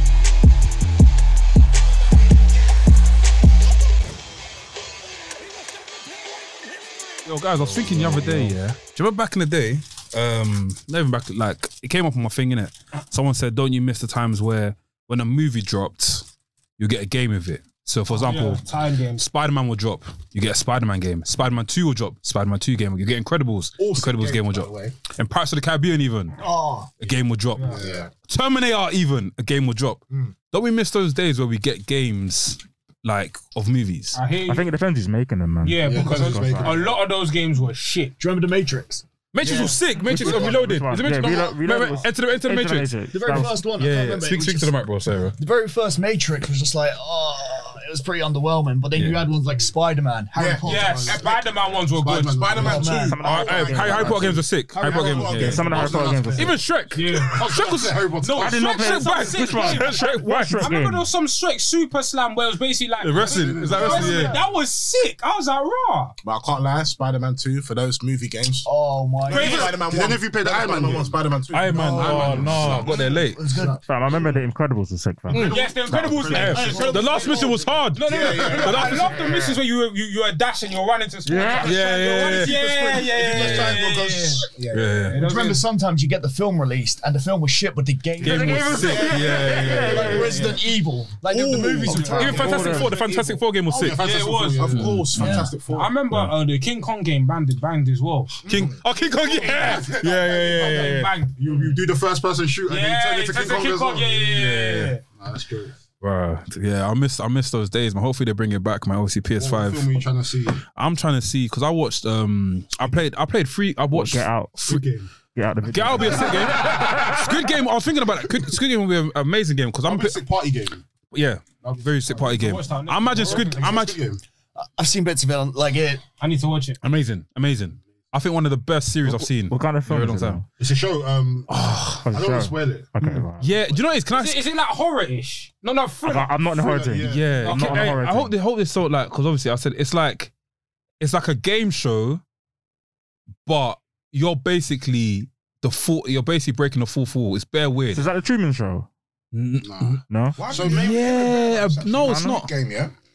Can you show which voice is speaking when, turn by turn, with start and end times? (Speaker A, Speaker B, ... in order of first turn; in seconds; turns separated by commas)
Speaker A: 7.2-16.2, Speaker A: 16.8-18.6, Speaker B: 18.2-19.2, Speaker A: 19.2-26.4, Speaker C: 23.8-24.9, Speaker D: 26.4-26.9, Speaker A: 27.0-34.2, Speaker B: 27.6-27.8, Speaker C: 27.6-28.1, Speaker E: 27.7-28.1, Speaker B: 34.1-34.7, Speaker F: 34.5-36.9, Speaker B: 35.6-38.2, Speaker C: 35.8-37.0, Speaker D: 38.2-40.6, Speaker A: 39.3-45.4, Speaker F: 40.0-43.7, Speaker D: 43.1-44.7, Speaker D: 45.4-51.2, Speaker A: 48.9-49.2, Speaker C: 50.4-58.6, Speaker B: 50.6-52.5, Speaker E: 52.3-54.0, Speaker D: 52.5-53.2, Speaker F: 52.8-54.4, Speaker A: 53.2-58.0, Speaker E: 54.8-56.2, Speaker F: 55.3-56.6, Speaker B: 56.9-57.5, Speaker B: 58.2-66.2, Speaker F: 58.4-61.1, Speaker A: 58.7-60.8, Speaker A: 63.0-64.4, Speaker C: 63.2-64.4, Speaker E: 66.2-68.7, Speaker D: 68.6-69.7, Speaker E: 69.3-72.7, Speaker B: 69.3-69.8, Speaker C: 69.3-73.8, Speaker A: 71.5-73.4, Speaker D: 71.7-73.8, Speaker F: 73.8-76.3, Speaker B: 75.3-84.5, Speaker A: 75.3-75.6, Speaker C: 75.4-77.5, Speaker A: 76.3-79.2, Speaker E: 76.3-76.8, Speaker D: 76.5-77.5, Speaker C: 78.0-79.1, Speaker E: 78.3-78.6, Speaker F: 81.2-81.8, Speaker A: 81.6-82.6, Speaker C: 82.2-85.6, Speaker E: 83.3-84.2, Speaker A: 83.3-83.8, Speaker A: 84.7-85.2, Speaker B: 85.1-85.6, Speaker D: 85.1-93.3, Speaker A: 88.2-90.3, Speaker F: 88.2-90.4, Speaker C: 88.7-90.5, Speaker C: 91.3-92.9, Speaker A: 91.5-94.0, Speaker B: 91.9-92.8, Speaker F: 92.1-92.9, Speaker C: 93.7-95.9, Speaker B: 93.8-98.4, Speaker A: 94.6-95.5, Speaker D: 95.2-95.5, Speaker A: 98.5-101.1, Speaker E: 98.5-98.8, Speaker C: 99.2-100.6, Speaker B: 100.3-101.8, Speaker C: 101.4-104.5, Speaker B: 102.7-105.0, Speaker A: 104.3-105.0, Speaker C: 105.1-105.8, Speaker A: 106.0-110.0, Speaker C: 109.4-110.6, Speaker A: 110.8-114.8, Speaker F: 113.9-114.5, Speaker C: 114.6-115.1, Speaker F: 115.3-117.2, Speaker A: 115.7-120.2, Speaker C: 119.8-120.8, Speaker A: 121.1-124.0, Speaker C: 121.6-122.6, Speaker B: 122.3-123.6, Speaker C: 123.1-124.2, Speaker D: 124.6-126.0, Speaker B: 126.2-126.8, Speaker A: 126.8-130.4, Speaker F: 129.3-130.4, Speaker C: 130.6-131.5, Speaker A: 131.5-132.0, Speaker F: 132.0-133.5, Speaker C: 132.1-132.9, Speaker A: 133.1-134.4, Speaker B: 134.1-136.4, Speaker F: 136.0-138.3, Speaker C: 136.5-137.6, Speaker A: 137.0-140.3, Speaker B: 137.4-137.9, Speaker A: 141.0-142.2, Speaker A: 143.4-148.1, Speaker F: 147.9-148.9, Speaker A: 149.3-152.5, Speaker C: 149.6-151.1, Speaker F: 150.1-150.4, Speaker E: 150.4-152.9, Speaker F: 151.9-152.5